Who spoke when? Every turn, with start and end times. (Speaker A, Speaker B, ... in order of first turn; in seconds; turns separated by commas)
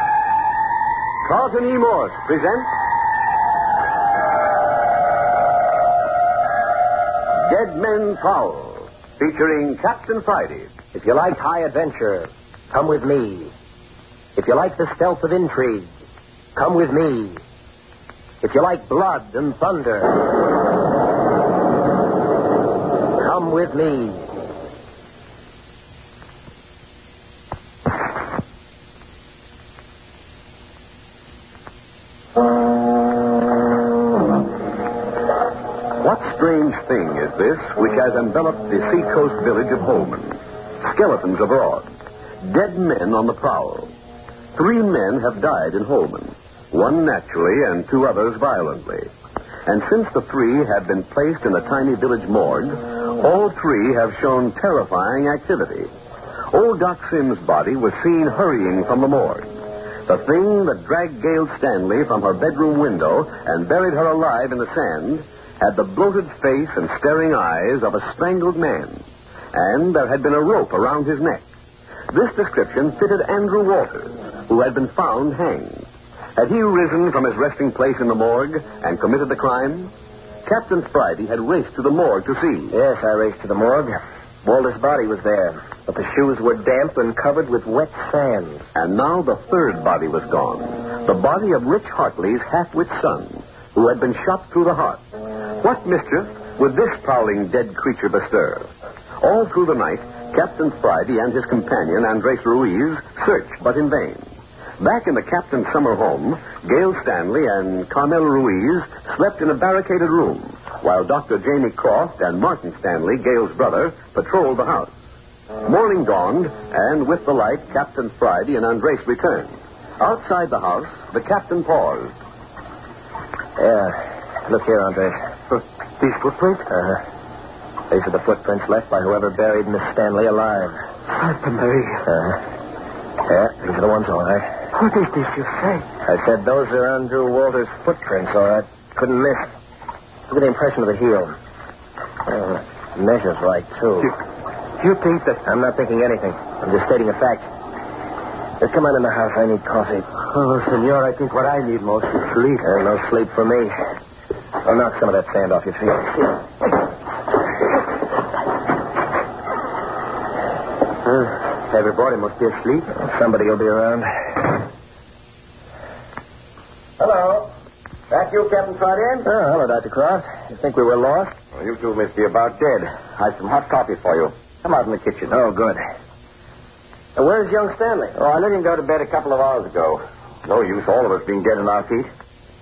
Speaker A: 1.2-2.7, Speaker A: 7.4-10.7, Speaker B: 10.9-13.5, Speaker B: 14.3-15.9, Speaker B: 16.6-17.4, Speaker B: 18.4-20.2, Speaker B: 23.2-24.2, Speaker A: 36.0-41.9, Speaker A: 42.4-43.9, Speaker A: 44.5-49.1, Speaker A: 49.7-55.9, Speaker A: 56.5-59.5, Speaker A: 60.1-71.4, Speaker A: 72.1-79.9, Speaker A: 80.5-82.8, Speaker B: 82.7-88.6, Speaker A: 88.8-95.0, Speaker A: 95.6-98.7, Speaker A: 99.2-104.3, Speaker A: 104.8-114.9, Speaker A: 115.6-122.1, Speaker B: 123.6-125.2, Speaker C: 125.5-126.7, Speaker B: 126.7-127.0, Speaker B: 127.9-130.8, Speaker C: 131.1-132.1, Speaker B: 132.1-132.4, Speaker B: 133.3-134.5, Speaker C: 134.7-135.8, Speaker B: 136.0-139.5, Speaker B: 140.3-141.3, Speaker B: 142.3-144.1, Speaker C: 144.8-145.4, Speaker B: 145.4-147.5, Speaker B: 148.6-150.1, Speaker C: 150.2-152.7, Speaker B: 152.6-153.7, Speaker B: 154.6-156.4, Speaker C: 161.0-162.9, Speaker B: 163.0-164.1, Speaker D: 167.0-167.5, Speaker D: 168.1-169.3, Speaker B: 169.2-171.3, Speaker D: 171.6-175.4, Speaker B: 175.3-175.8, Speaker B: 177.2-178.2, Speaker D: 178.1-182.1